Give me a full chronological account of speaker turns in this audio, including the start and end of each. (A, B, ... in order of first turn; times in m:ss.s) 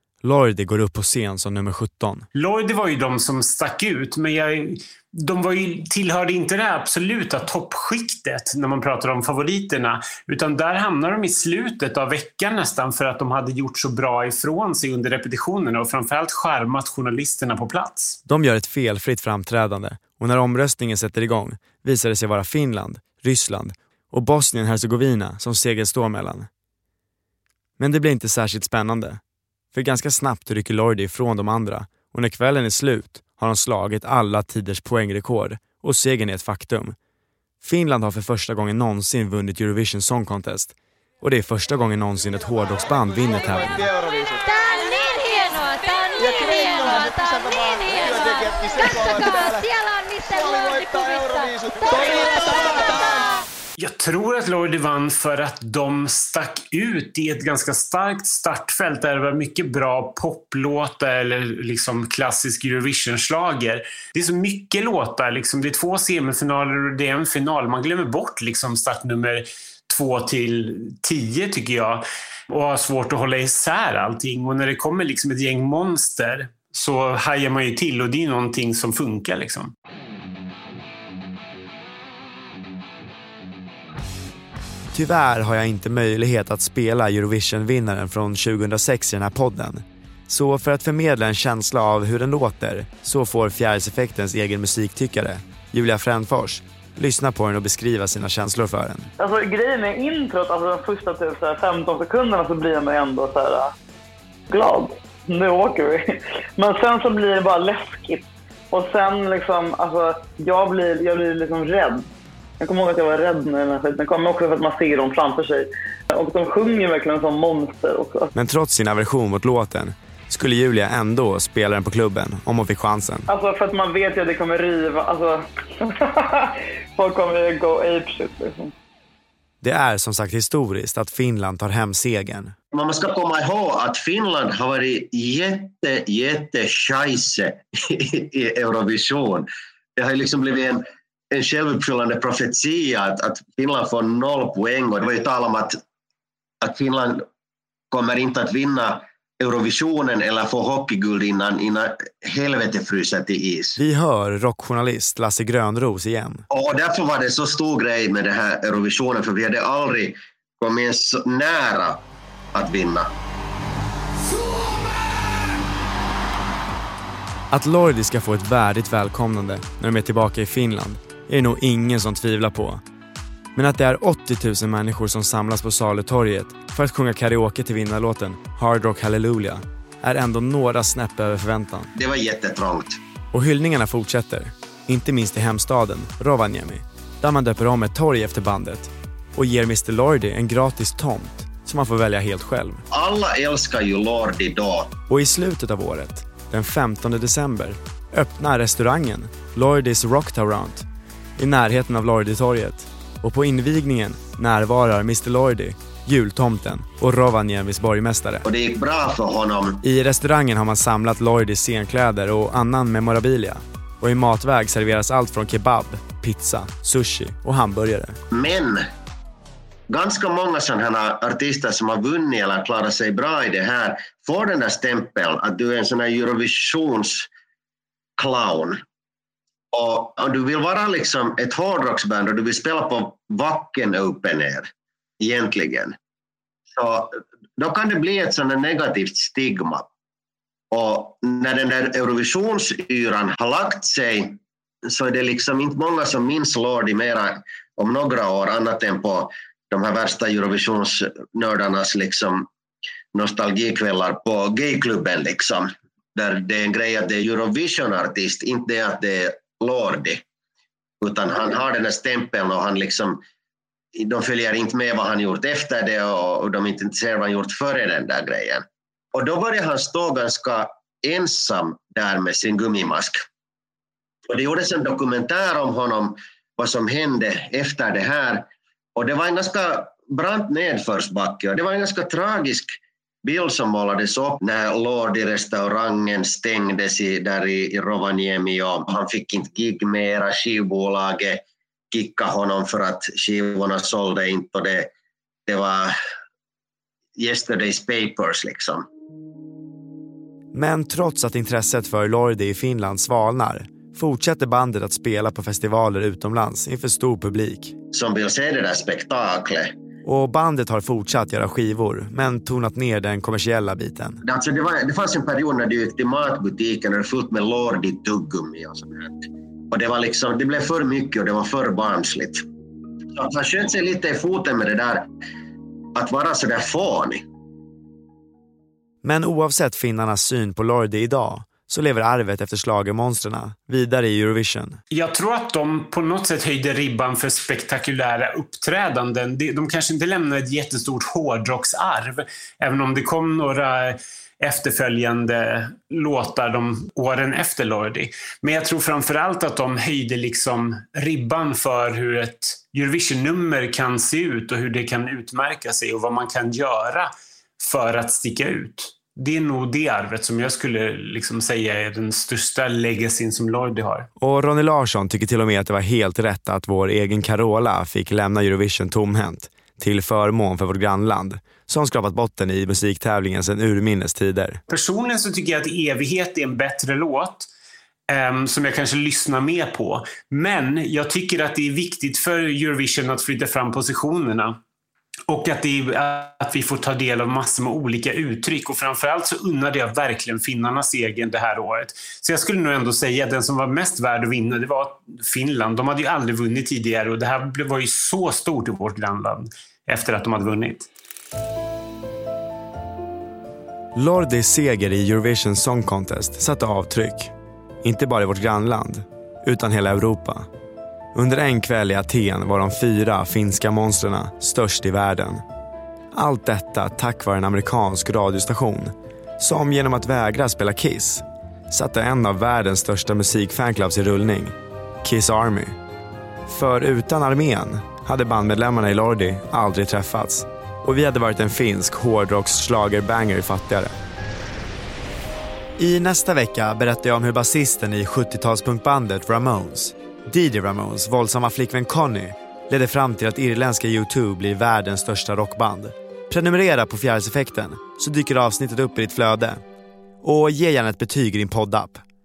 0:00.2-0:02.3 A
0:02.3-0:18.2 B
0:18.3-0:26.5 A
0:27.8-0:29.2 A
0:29.7-0:37.0 A
0:37.6-0:43.9 A
0:44.4-0:53.3 C
0:53.8-1:19.7 B
1:24.9-1:39.1 A
1:39.2-1:43.7 D
1:44.5-1:52.0 D
1:52.6-1:58.3 D
1:58.3-2:03.3 A
2:03.3-2:08.7 D
2:09.6-2:12.5 A
2:12.7-2:25.8 E
2:26.6-2:27.2 E
2:27.9-2:33.8 E
2:33.8-2:36.4 A
2:36.5-2:42.0 E
2:42.5-2:43.1 E
2:47.5-2:52.8 A
2:53.5-3:01.9 A
3:02.0-3:03.0 E
3:03.3-3:12.8 A
3:12.9-3:14.9 E
3:15.1-3:20.8 A
3:21.4-3:28.4 A
3:28.4-3:29.8 E
3:29.8-3:38.2 A
3:38.3-3:38.9 E
3:39.9-3:47.3 E
3:48.2-3:48.8 E
3:49.7-3:54.7 E
3:55.2-3:56.0 E
3:56.7-3:59.9 E
4:00.7-4:12.5 E
4:13.1-4:20.2 E
4:21.0-4:23.2 E
4:23.9-4:33.2 E
4:34.3-4:54.9 E
4:55.5-4:55.9 E
4:57.2-4:58.8 E
5:00.5-5:07.8 A
5:07.9-5:09.7 E
5:10.0-5:14.2 A
5:14.2-5:22.4 E
5:23.1-5:25.1 E
5:25.9-5:27.2 E
5:29.0-5:34.8 A
5:34.9-6:04.1 B
6:04.2-6:14.6 A
6:14.7-6:17.5 B
6:18.1-6:24.6 B
6:25.3-6:40.9 B
6:43.9-6:50.5 A
6:51.1-6:55.4 A
6:56.1-7:05.8 A
7:06.5-7:14.0 A
7:15.8-7:29.6 A
7:30.2-7:32.0 A